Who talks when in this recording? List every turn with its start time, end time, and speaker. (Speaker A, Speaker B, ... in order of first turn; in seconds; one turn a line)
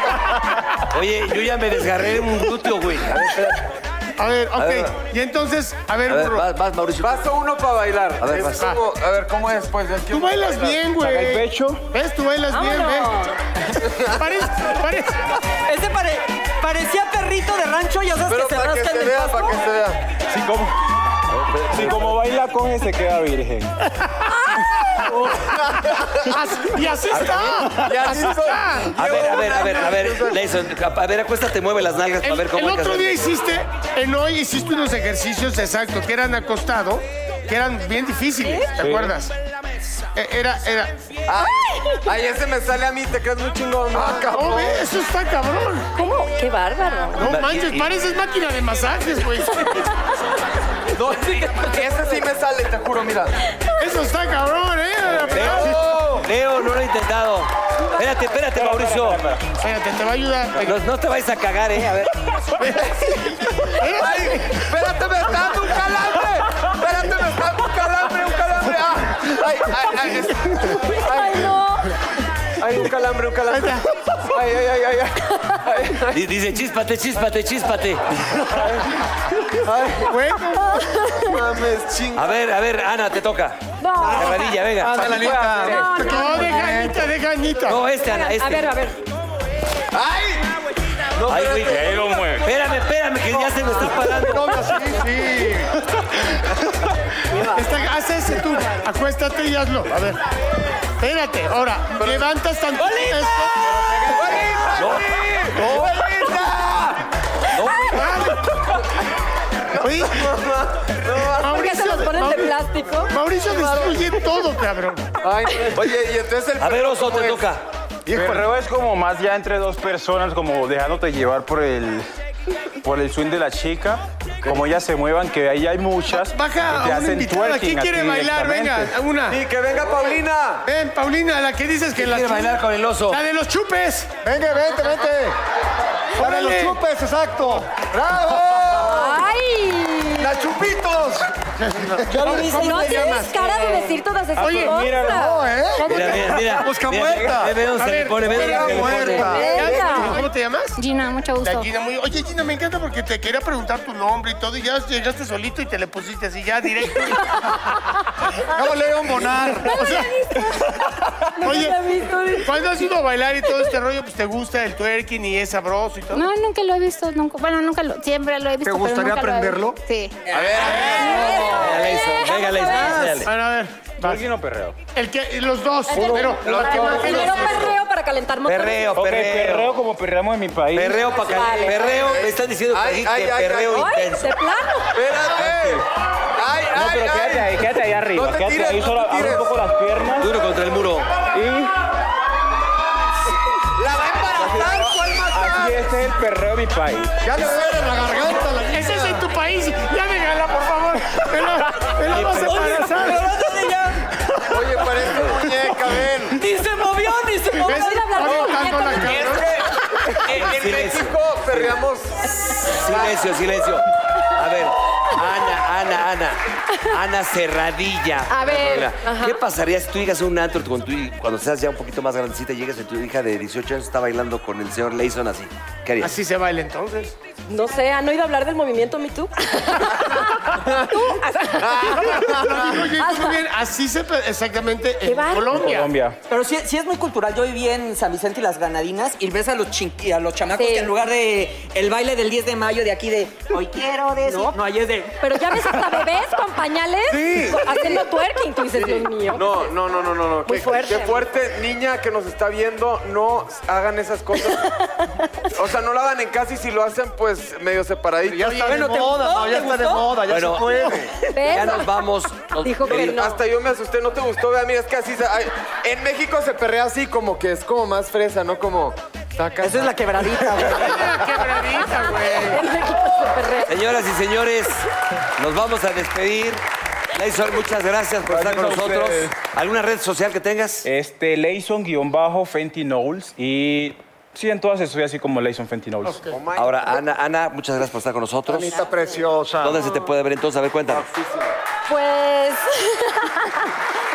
Speaker A: 0.8-3.6
Speaker B: 4.2-6.5
Speaker A: 4.6-5.0
Speaker A: 6.1-7.2
Speaker C: 7.0-10.8
Speaker A: 8.2-8.7
Speaker B: 10.1-13.1
Speaker D: 11.0-11.9
Speaker E: 12.5-13.3
Speaker C: 13.8-14.1
Speaker B: 14.1-15.3
Speaker F: 15.7-19.6
Speaker C: 18.3-20.0
Speaker D: 20.3-20.8
Speaker A: 21.3-22.1
Speaker D: 21.7-23.8
Speaker C: 25.5-26.3
Speaker B: 26.3-29.9
Speaker A: 27.1-27.6
Speaker D: 27.6-27.9
Speaker C: 27.7-30.4
Speaker A: 28.9-33.2
Speaker B: 32.2-39.3
Speaker D: 38.8-39.1
Speaker B: 40.1-40.9
Speaker C: 41.3-44.8
Speaker E: 41.6-42.0
Speaker G: 43.9-44.6
Speaker B: 44.1-45.9
Speaker E: 46.0-47.2
Speaker B: 47.2-49.8
Speaker A: 47.2-47.9
Speaker C: 50.9-53.4
Speaker B: 53.8-55.8
Speaker D: 55.1-55.7
Speaker A: 55.3-59.3
Speaker C: 55.9-56.2
Speaker D: 58.5-59.5
Speaker B: 59.5-60.8
Speaker A: 60.6-62.1
Speaker B: 62.5-64.7
Speaker C: 63.8-71.5
Speaker E: 70.6-71.9
Speaker C: 72.6-76.2
Speaker B: 73.5-73.9
Speaker A: 76.1-78.2
Speaker C: 78.5-78.9
Speaker C: 79.6-80.1
Speaker B: 80.1-80.9
Speaker E: 80.6-81.3
Speaker C: 81.2-82.3
Speaker A: 82.1-83.6
Speaker E: 83.8-84.5
Speaker A: 84.1-85.0
Speaker G: 84.8-87.1
Speaker F: 85.0-85.6
Speaker D: 85.2-85.7
Speaker E: 85.6-86.8
Speaker B: 86.0-87.8
Speaker A: 87.7-88.7
Speaker E: 88.0-89.0
Speaker C: 89.9-90.5
Speaker A: 91.2-94.5
Speaker C: 91.3-91.8
Speaker D: 91.6-92.5
Speaker G: 93.3-95.8
Speaker F: 97.3-97.6
Speaker B: 97.5-100.2
Speaker B: 101.0-103.6
Speaker C: 102.0-102.2
Speaker G: 103.9-104.5
Speaker C: 104.1-106.9
Speaker A: 104.8-105.1
Speaker A: 107.5-108.1
Speaker B: 107.9-108.8
Speaker C: 109.7-111.6
Speaker B: 109.8-110.3
Speaker B: 111.4-115.1
Speaker E: 111.4-113.1
Speaker C: 113.4-114.1
Speaker C: 115.2-117.4
Speaker A: 116.6-117.6
Speaker G: 118.0-118.5
Speaker D: 118.1-122.0
Speaker D: 122.8-128.9
Speaker B: 126.1-129.4
Speaker C: 129.3-130.7
Speaker B: 130.6-134.1
Speaker A: 131.9-133.2
Speaker G: 134.2-135.3
Speaker B: 136.2-136.8
Speaker G: 136.2-139.3
Speaker E: 138.7-140.3
Speaker G: 140.2-141.3
Speaker B: 141.6-143.8
Speaker F: 142.1-143.9
Speaker E: 142.3-146.5
Speaker D: 144.4-145.2
Speaker B: 144.4-144.9
Speaker G: 145.0-147.6
Speaker A: 145.9-149.4
Speaker B: 147.6-150.8
Speaker G: 148.3-150.1
Speaker E: 149.2-150.2
Speaker H: 150.8-151.7
Speaker B: 151.4-157.5
Speaker G: 158.5-160.0
Speaker B: 159.7-160.7
Speaker E: 159.7-160.8
Speaker E: 161.4-162.9
Speaker B: 161.4-161.9
Speaker B: 162.4-166.3
Speaker H: 166.1-170.2
Speaker G: 168.6-169.8
Speaker C: 170.3-171.5
Speaker B: 170.6-171.0
Speaker E: 170.9-173.2
Speaker G: 171.0-171.4
Speaker A: 171.3-173.3
Speaker B: 172.9-174.2
Speaker D: 174.0-174.8
Speaker B: 174.9-177.6
Speaker E: 175.9-178.9
Speaker C: 175.9-177.7
Speaker A: 178.4-179.8
Speaker D: 178.9-181.7
Speaker A: 180.7-184.3
Speaker C: 181.3-183.9
Speaker E: 181.4-181.8
Speaker E: 183.7-184.9
Speaker C: 184.9-189.4
Speaker D: 185.3-185.9
Speaker D: 186.7-190.3
Speaker G: 189.1-189.4
Speaker A: 190.1-191.1
Speaker D: 191.3-191.7
Speaker C: 193.8-195.9
Speaker D: 194.4-197.2
Speaker G: 197.2-199.2
Speaker B: 198.7-203.2
Speaker F: 202.1-204.0
Speaker D: 202.1-202.7
Speaker C: 204.5-206.4
Speaker F: 206.3-208.5
Speaker E: 207.6-209.2
Speaker B: 207.7-209.4
Speaker F: 209.0-209.3
Speaker C: 209.1-213.4
Speaker A: 210.3-211.7
Speaker A: 212.6-226.2
Speaker E: 218.3-219.4
Speaker B: 226.0-227.1
Speaker E: 227.5-232.3
Speaker C: 231.6-232.6
Speaker B: 231.9-235.9
Speaker E: 233.0-233.4
Speaker E: 235.0-235.6
Speaker D: 235.5-236.2
Speaker F: 236.3-245.8
Speaker E: 240.6-240.9
Speaker E: 244.3-244.6
Speaker E: 245.2-249.7
Speaker C: 247.1-247.9
Speaker C: 248.8-254.7
Speaker E: 250.4-251.2
Speaker E: 254.3-255.5
Speaker C: 255.5-258.8
Speaker G: 258.2-261.2
Speaker F: 258.6-260.1
Speaker A: 260.2-260.7
Speaker E: 261.3-263.4
Speaker A: 261.4-263.2
Speaker C: 262.9-270.6
Speaker F: 269.6-271.1
Speaker B: 270.7-272.6
Speaker E: 272.2-273.8
Speaker A: 273.6-274.9
Speaker A: 275.4-276.6
Speaker A: 277.1-280.9
Speaker D: 278.3-279.4
Speaker D: 280.8-286.2
Speaker B: 286.0-286.4
Speaker C: 286.3-286.9
Speaker A: 286.5-288.7
Speaker B: 288.5-288.9
Speaker G: 288.7-289.8
Speaker A: 289.6-291.1
Speaker C: 290.9-291.5
Speaker E: 291.9-293.7